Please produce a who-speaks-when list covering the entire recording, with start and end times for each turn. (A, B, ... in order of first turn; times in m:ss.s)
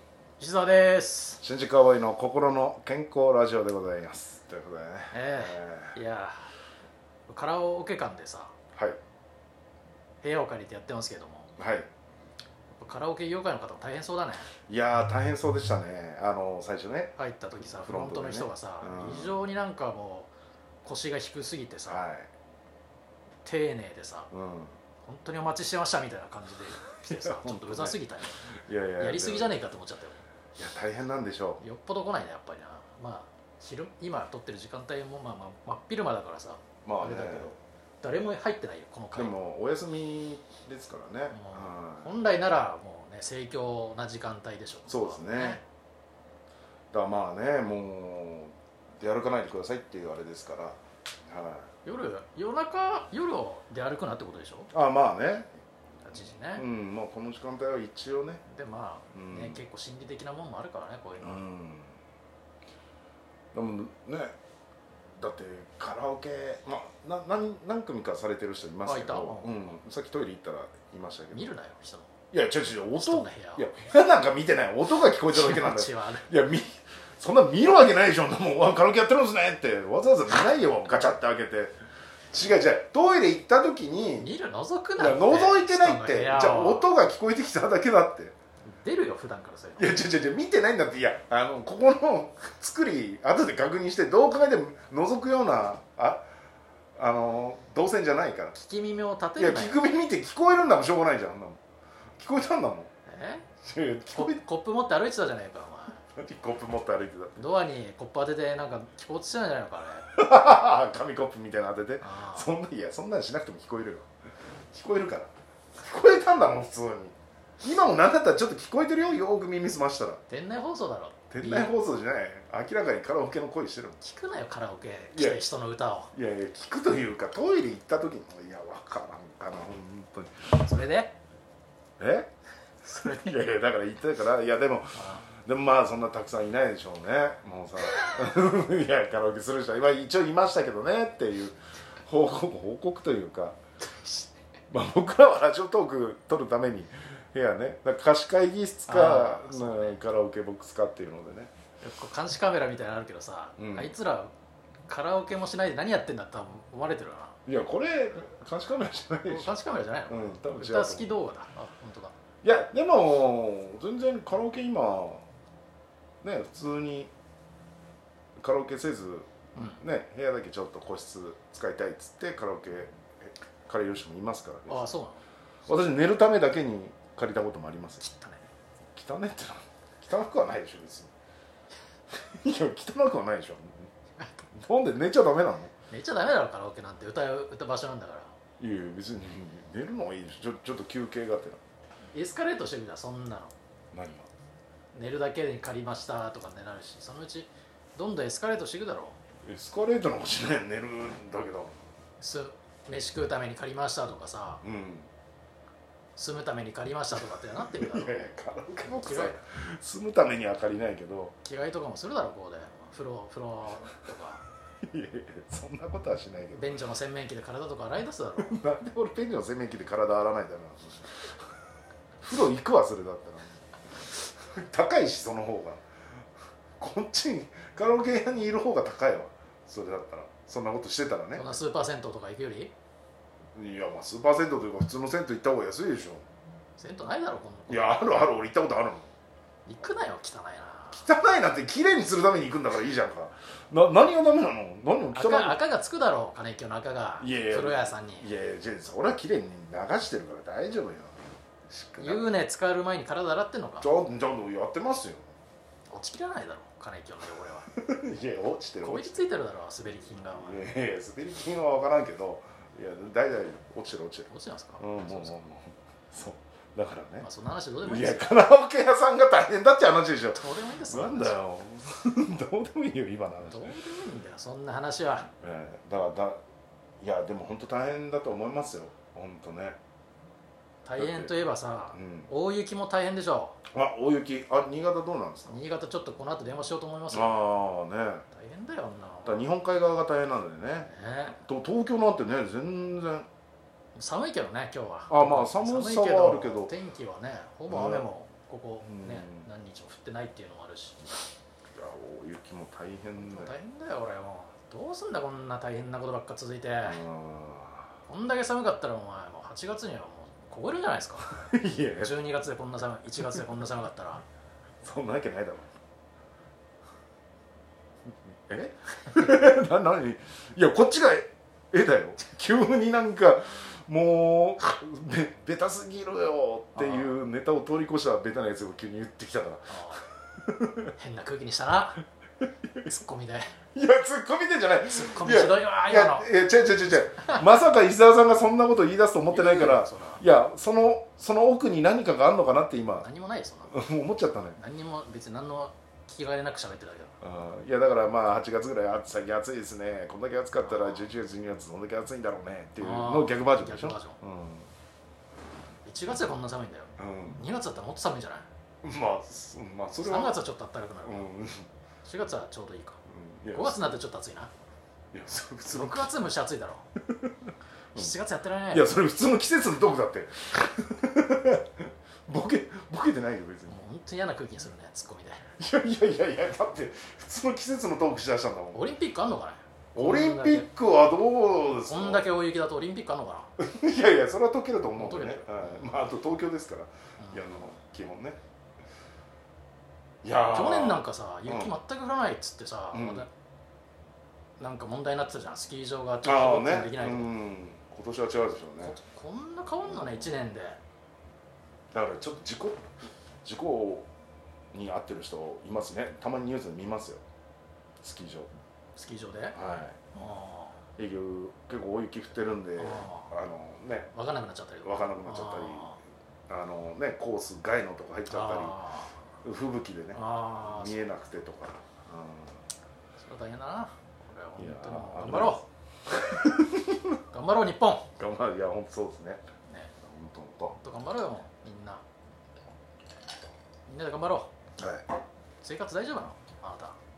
0:00.4-0:01.4 A
0:01.4-0:06.0 B
0:05.1-0:06.5 A
0:07.3-0:08.5 A
0:10.2-0:11.5 A
0:11.6-0:11.9 B
0:12.7-0:14.5 A
0:14.7-0:19.4 B
0:17.2-0:20.3 A
0:20.8-0:22.0 A
0:21.9-0:22.3 B
0:23.4-0:24.3 A
0:24.3-0:24.7 B
0:25.0-0:28.4 A
0:27.0-0:29.6 B
0:29.0-0:30.2 A
0:30.6-0:31.6 B
0:31.6-0:39.4 A
0:36.8-0:37.5 B
0:39.1-0:42.1 B
0:41.3-0:45.6 A
0:44.9-0:45.6 B
0:46.9-0:51.7 B
0:51.8-0:54.7 A
0:54.7-0:55.5 B
0:56.0-0:56.6 A
0:56.5-0:58.4 B
0:58.5-1:01.4 A
0:59.1-0:59.6 B
1:01.2-1:02.0 B
1:03.5-1:04.4 B
1:05.2-1:11.5 B
1:08.8-1:09.6 A
1:11.3-1:12.1 A
1:12.3-1:21.8 B
1:12.9-1:13.7 A
1:15.3-1:16.3 A
1:22.3-1:24.3 B
1:24.2-1:26.9 A
1:25.0-1:28.3 B
1:28.6-1:29.9 A
1:29.8-1:36.2 B
1:37.0-1:38.6 B
1:38.5-1:39.8 A
1:39.4-1:41.6 B
1:42.2-1:42.9 B
1:43.1-1:43.5 A
1:43.6-1:44.4 B
1:44.1-1:46.0 A
1:46.1-1:47.4 B
1:47.4-1:50.1 A
1:50.1-1:54.1 B
1:52.0-1:52.5 A
1:54.7-2:00.2 B
2:00.3-2:01.7 A
2:01.3-2:04.0 B
2:04.0-2:06.1 A
2:05.1-2:05.4 B
2:06.1-2:10.5 B
2:10.5-2:11.1 A
2:12.0-2:12.3 B
2:12.8-2:13.4 A
2:13.1-2:23.6 B
2:14.9-2:15.2 A
2:23.8-2:24.3 A
2:24.7-2:31.5 B
2:28.9-2:30.0 A
2:31.8-2:34.3 A
2:33.6-2:33.9 B
2:34.9-2:37.4 A
2:37.4-2:39.5 B
2:39.2-2:42.1 A
2:40.1-2:41.1 B
2:42.4-2:45.2 B
2:46.2-2:47.1 B
2:48.4-2:54.9 B
2:49.6-2:49.8 A
2:54.7-2:55.2 A
2:55.7-2:58.0 B
2:58.0-2:58.4 A
2:58.9-3:01.1 B
3:02.2-3:03.9 B
3:04.6-3:05.7 B
3:05.9-3:08.3 A
3:08.6-3:11.6 B
3:12.1-3:13.5 A
3:13.9-3:14.3 B
3:14.9-3:19.2 A
3:19.4-3:21.8 B
3:22.2-3:24.6 A
3:24.6-3:25.1 B
3:26.2-3:28.2 A
3:27.6-3:31.4 B
3:28.8-3:29.4 A
3:31.4-3:34.4 A
3:34.8-3:36.7 B
3:36.5-3:38.6 A
3:38.4-3:41.3 B
3:42.2-3:45.8 B
3:46.8-3:51.6 B
3:51.3-3:52.7 A
3:53.5-3:56.2 B
3:56.8-3:58.1 A
3:57.7-3:59.1 B
3:59.7-4:01.0 A
4:00.9-4:05.6 B
4:05.1-4:08.3 A
4:07.2-4:12.3 B
4:12.0-4:13.9 A
4:13.8-4:15.3 B
4:15.9-4:17.7 A
4:17.7-4:19.2 B
4:18.8-4:20.6 A
4:20.3-4:27.3 B
4:24.3-4:25.4 A
4:27.2-4:28.3 A
4:27.8-4:33.8 B
4:30.3-4:31.4 A
4:33.5-4:35.3 A
4:35.4-4:36.4 B
4:37.0-4:39.8 B
4:40.8-4:43.6 A
4:41.0-4:41.3 B
4:41.9-4:42.3 B
4:43.7-4:45.6 B
4:45.5-4:47.4 A
4:47.1-4:48.2 B
4:48.3-4:49.5 A
4:49.2-4:53.3 B
4:50.9-4:51.4 A
4:54.0-5:01.2 A
4:55.1-4:56.7 B
4:57.7-4:58.1 B
4:58.8-4:59.4 B
5:01.7-5:03.5 B
5:03.2-5:07.0 A
5:06.8-5:07.9 B
5:08.1-5:11.3 A
5:11.3-5:12.1 B
5:12.0-5:14.2 A
5:14.8-5:15.7 B
5:18.5-5:30.9 B
5:26.7-5:27.1 A
5:29.7-5:30.0 A
5:31.0-5:32.0 A
5:32.4-5:32.8 B
5:32.8-5:33.6 A
5:33.7-5:43.1 B
5:34.9-5:36.3 A
5:37.2-5:37.4 A
5:39.3-5:40.2 A
5:43.0-5:43.8 A
5:43.7-5:44.6 B
5:44.6-5:47.1 A
5:47.2-5:54.7 B
5:50.6-5:51.1 A
5:52.8-5:54.2 A
5:55.8-5:58.5 A
5:57.0-5:57.4 B
5:58.8-6:00.4 B
6:00.0-6:01.3 A
6:01.0-6:01.7 B
6:02.0-6:03.0 A
6:03.0-6:04.0 B
6:03.5-6:04.5 A
6:05.1-6:06.1 B
6:05.7-6:06.8 A
6:07.1-6:08.1 B
6:07.9-6:08.9 A
6:08.7-6:13.8 B
6:13.7-6:15.4 A
6:15.6-6:18.8 B
6:18.7-6:20.7 A
6:19.9-6:22.3 B
6:21.8-6:23.5 A
6:23.6-6:28.4 B
6:25.0-6:26.0 A
6:27.2-6:27.4 A
6:30.2-6:31.7 B
6:30.5-6:33.3 A
6:32.9-6:33.2 B
6:34.6-6:37.3 A
6:36.2-6:39.0 B
6:38.8-6:40.8 A
6:39.8-6:40.3 B
6:41.9-6:42.9 B
6:43.4-6:44.1 B
6:44.7-6:47.2 B
6:48.0-6:48.5 B
6:49.0-6:49.6 A
6:49.5-6:50.0 B
6:50.1-6:50.8 A
6:51.0-6:54.1 B
6:52.8-6:53.3 A
6:54.1-6:56.0 A
6:54.8-6:56.0 B
6:56.5-6:58.8 B
6:58.3-6:59.1 A
6:59.4-7:02.6 B
7:00.1-7:01.1 A
7:03.2-7:05.6 A
7:04.6-7:07.2 B
7:07.3-7:08.1 A
7:08.1-7:09.4 B
7:10.0-7:10.8 B
7:10.8-7:12.0 A
7:13.9-7:14.5 A
7:14.8-7:15.1 B
7:15.6-7:17.0 A